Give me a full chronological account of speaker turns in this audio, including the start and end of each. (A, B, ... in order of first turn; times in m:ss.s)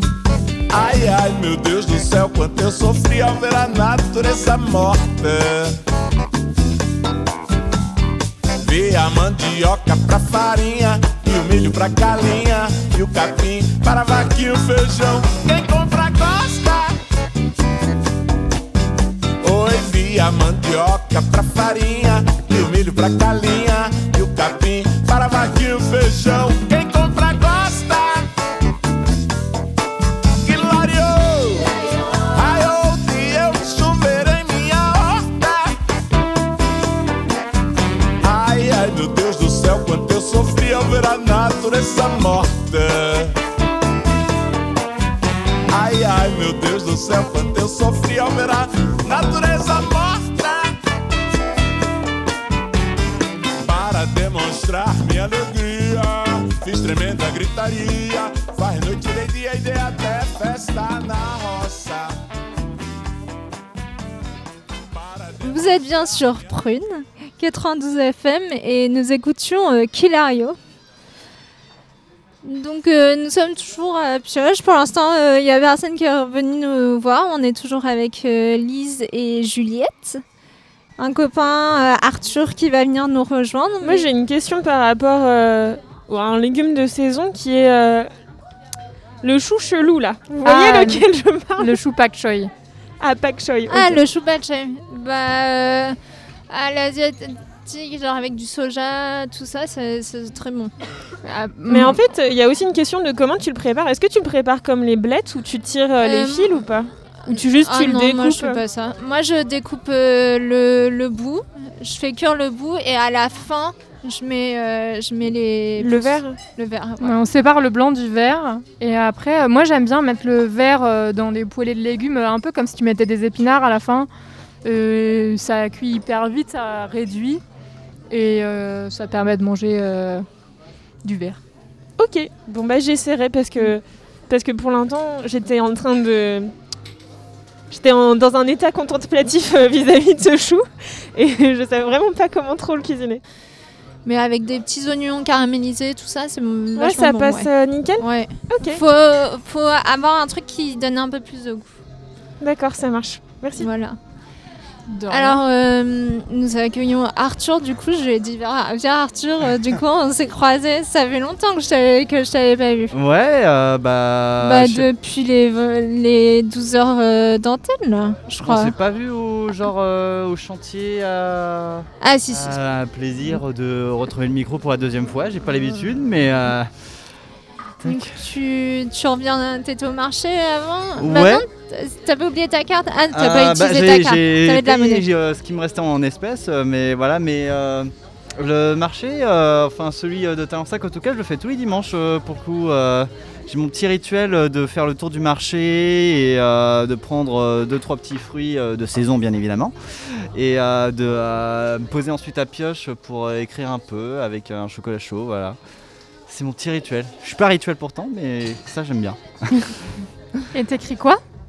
0:00.7-0:05.8 A
0:08.6-0:17.0 A
0:19.4-0:28.3 A
0:30.4-0:35.8 A
0:38.2-0:43.3 A
0:45.7-0:50.7 A
0:53.6-1:02.2 A
1:04.9-1:05.7 A
1:05.4-1:10.6 B
1:12.4-1:20.2 B
1:21.0-1:24.1 B
1:23.8-1:28.1 C
1:29.2-1:31.8 C
1:30.4-1:31.0 D
1:31.6-1:32.5 D
1:33.0-1:34.0 C
1:33.7-1:36.0 B
1:36.5-1:40.7 B
1:41.2-1:42.0 D
1:41.7-1:48.6 C
1:46.0-1:46.6 B
1:47.3-1:57.2 B
1:55.8-1:56.4 C
1:57.0-2:04.1 D
2:04.6-2:07.4 D
2:08.1-2:10.2 D
2:11.0-2:11.4 D
2:12.0-2:16.5 C
2:17.7-2:23.2 C
2:24.0-2:27.5 B
2:26.8-2:28.8 C
2:28.0-2:31.7 B
2:32.4-2:33.7 C
2:33.6-2:34.0 B
2:34.9-2:35.4 D
2:35.1-2:42.9 B
2:42.9-2:44.9 E
2:44.4-2:48.7 B
2:48.4-2:56.7 E
2:52.0-2:52.6 B
2:57.8-2:58.2 E
2:57.8-3:05.0 B
3:01.0-3:01.4 E
3:03.1-3:25.6 E
3:26.3-3:29.4 E
3:30.5-3:31.2 D